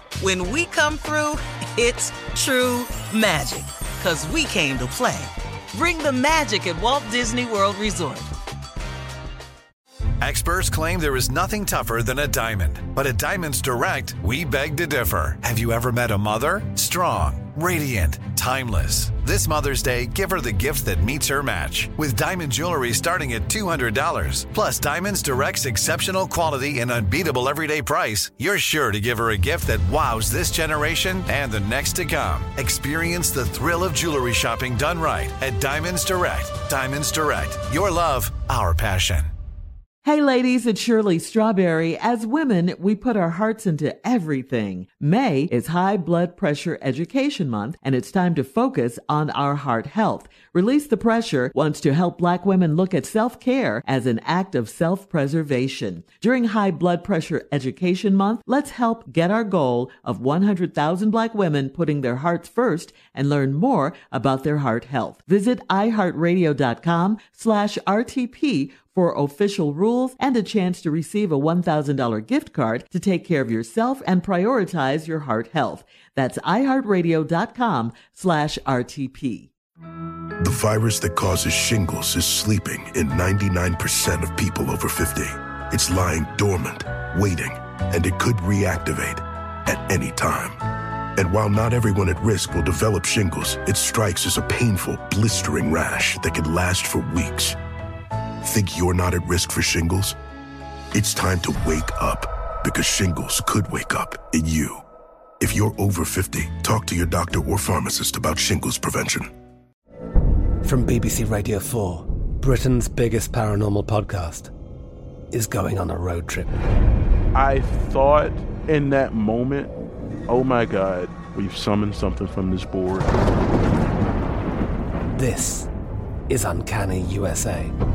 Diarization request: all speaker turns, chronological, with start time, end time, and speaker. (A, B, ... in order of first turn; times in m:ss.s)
0:00.2-0:08.3 A
0:10.2-0:39.3 B
0:40.0-1:19.5 C
1:20.4-1:30.6 D
1:31.2-1:37.6 D
1:38.4-1:40.2 D
1:40.9-1:44.8 D
1:45.4-1:49.3 D
1:50.6-1:54.5 E
1:55.3-1:56.6 E
1:57.3-1:59.7 F
2:00.3-2:03.2 F
2:05.2-2:05.7 E
2:06.3-2:07.7 E